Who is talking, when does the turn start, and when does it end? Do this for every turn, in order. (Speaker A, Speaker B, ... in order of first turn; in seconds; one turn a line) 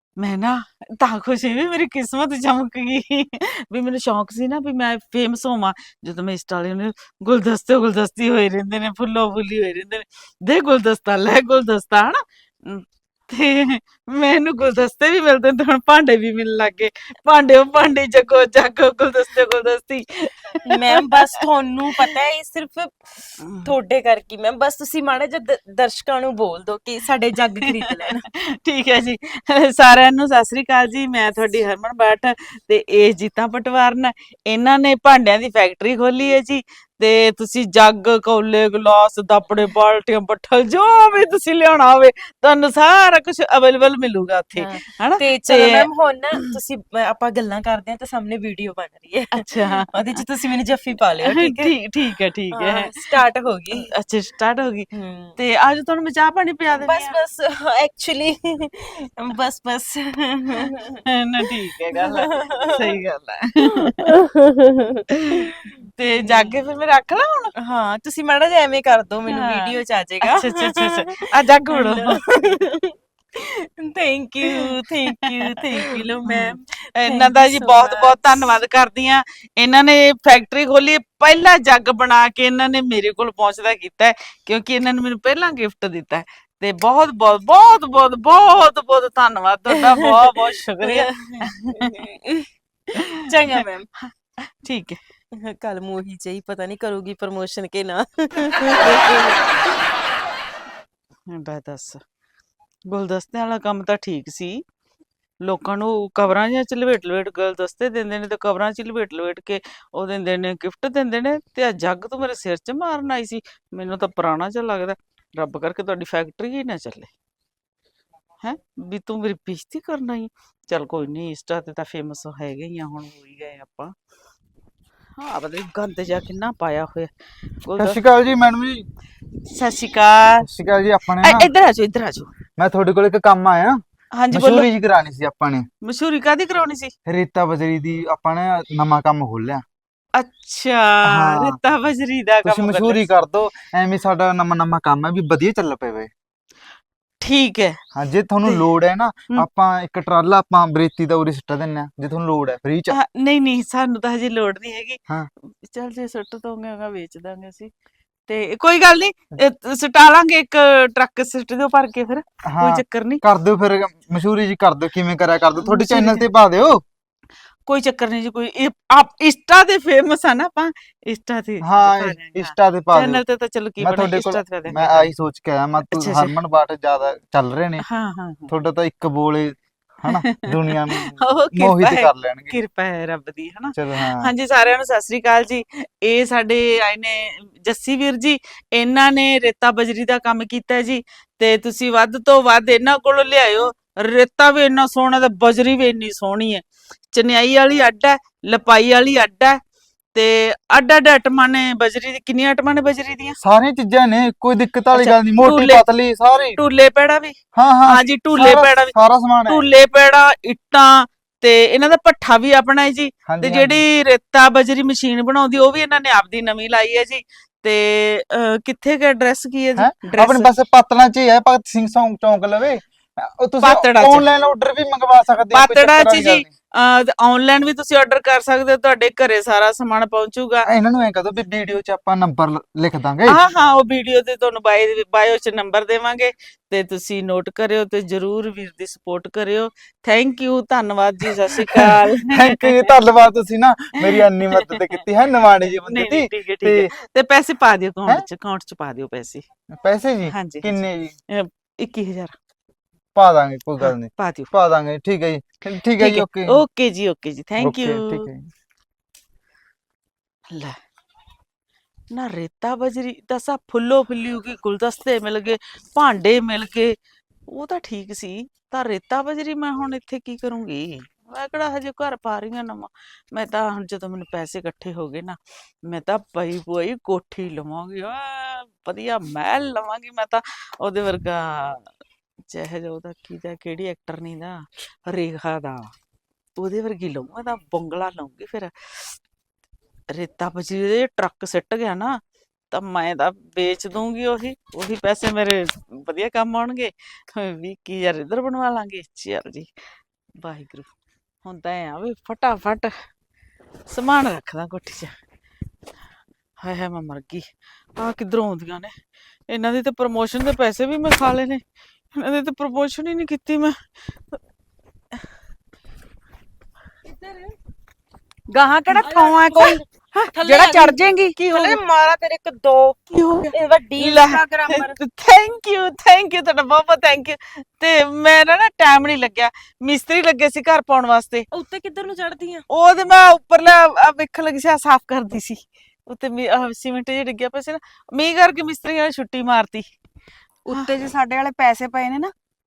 Speaker A: 0.2-21.2
Speaker B: 20.7-28.2
Speaker A: 23.4-23.7
Speaker A: 28.4-45.9
Speaker B: 44.6-51.7
Speaker A: 49.4-50.2
Speaker A: 51.2-53.1
Speaker B: 52.5-53.9
Speaker A: 53.7-57.2
Speaker B: 54.9-55.4
Speaker B: 56.8-61.0
Speaker A: 61.1-64.0
Speaker B: 62.0-62.8
Speaker B: 63.8-65.5
Speaker A: 65.3-67.5
Speaker B: 66.2-66.5
Speaker B: 67.6-78.4
Speaker A: 69.3-72.2
Speaker A: 76.3-92.0
Speaker B: 89.8-93.9
Speaker A: 93.5-95.0
Speaker B: 95.3-99.4
Speaker A: 101.3-102.0
Speaker A: 102.9-104.6
Speaker A: 105.4-117.1
Speaker A: 118.4-123.9
Speaker A: 125.2-127.1
Speaker A: 127.6-128.0
Speaker C: 127.8-128.9
Speaker A: 129.5-130.5
Speaker C: 130.4-131.5
Speaker A: 131.2-132.3
Speaker C: 132.6-133.8
Speaker A: 134.1-134.7
Speaker C: 134.3-135.7
Speaker A: 135.8-136.9
Speaker C: 137.1-139.6
Speaker A: 140.2-143.0
Speaker C: 141.1-141.6
Speaker C: 142.4-146.1
Speaker A: 147.2-147.8
Speaker C: 147.9-153.0
Speaker A: 152.9-155.0
Speaker A: 155.6-157.7
Speaker A: 158.3-163.2
Speaker C: 162.5-166.8
Speaker A: 165.6-166.2
Speaker A: 167.7-175.1
Speaker C: 171.6-173.2
Speaker C: 173.8-177.9
Speaker A: 175.9-176.3
Speaker A: 177.8-178.5
Speaker C: 178.5-182.6
Speaker A: 180.1-199.6
Speaker C: 183.8-184.3
Speaker A: 200.1-203.4
Speaker C: 203.4-206.6
Speaker A: 204.9-205.8
Speaker A: 206.6-207.3
Speaker C: 207.6-209.6
Speaker A: 207.8-209.0
Speaker A: 209.5-220.5
Speaker C: 213.3-213.8
Speaker C: 219.8-226.5
Speaker A: 223.6-224.2
Speaker A: 225.5-230.7
Speaker C: 230.7-233.4
Speaker A: 233.3-242.9
Speaker C: 241.4-246.9
Speaker A: 244.0-245.0
Speaker A: 245.8-249.4
Speaker C: 249.7-251.2
Speaker A: 250.3-252.3
Speaker C: 253.2-256.6
Speaker A: 253.8-254.5
Speaker A: 256.0-258.3
Speaker C: 257.6-258.5
Speaker A: 260.5-260.8
Speaker A: 262.1-266.9
Speaker A: 267.5-281.9
Speaker A: 282.5-285.9
Speaker A: 286.6-289.1
Speaker A: 290.1-299.7
Speaker A: 300.4-300.9
Speaker A: 301.4-302.9
Speaker A: 303.9-305.1
Speaker A: 306.6-308.9
Speaker A: 309.5-311.6
Speaker A: 312.1-313.8
Speaker B: 317.1-317.6
Speaker D: 318.5-319.8
Speaker B: 319.0-323.0
Speaker D: 320.4-321.4
Speaker A: 323.1-331.5
Speaker B: 323.5-325.0
Speaker B: 331.5-332.7
Speaker A: 332.7-339.9
Speaker D: 340.7-342.3